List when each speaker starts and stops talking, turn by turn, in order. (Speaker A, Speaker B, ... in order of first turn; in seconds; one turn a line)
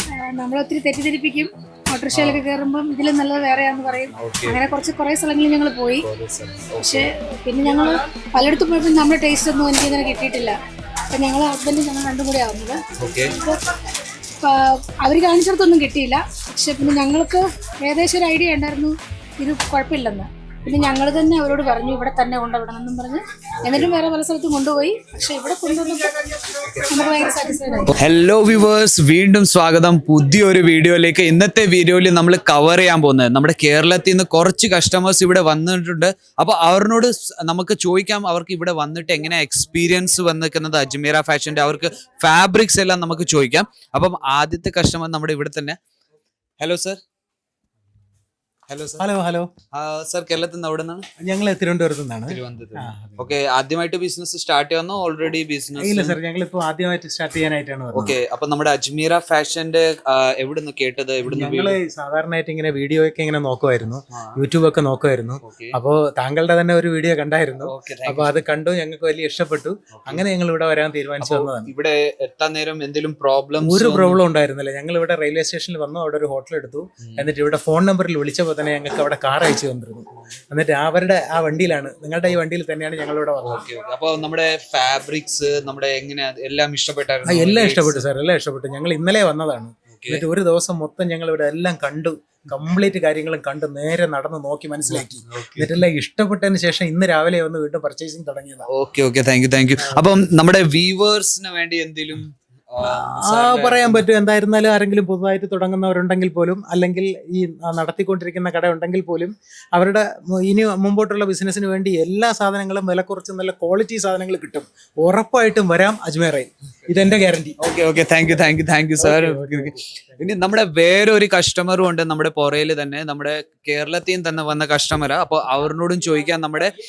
Speaker A: 0.2-6.0
Speaker B: 2.1-2.5
Speaker B: 4.1-4.6
Speaker B: 6.0-7.1
Speaker A: 6.8-10.6
Speaker A: 11.1-13.6
Speaker B: 13.0-13.3
Speaker A: 14.4-26.1
Speaker B: 23.6-23.9
Speaker A: 26.9-27.9
Speaker B: 28.0-45.8
Speaker B: 46.6-47.0
Speaker B: 48.7-49.0
Speaker C: 49.0-49.5
Speaker B: 49.7-51.1
Speaker C: 51.2-53.4
Speaker B: 52.3-56.2
Speaker C: 55.8-58.2
Speaker B: 57.9-61.8
Speaker C: 61.3-71.7
Speaker B: 65.4-65.7
Speaker B: 67.7-68.3
Speaker B: 69.9-70.2
Speaker B: 71.2-74.2
Speaker C: 73.6-83.7
Speaker B: 77.0-77.3
Speaker B: 83.5-88.0
Speaker C: 87.2-98.7
Speaker B: 89.9-90.2
Speaker B: 94.9-95.8
Speaker B: 98.7-104.0
Speaker C: 99.8-100.1
Speaker C: 102.8-117.6
Speaker B: 117.6-126.7
Speaker C: 119.0-120.3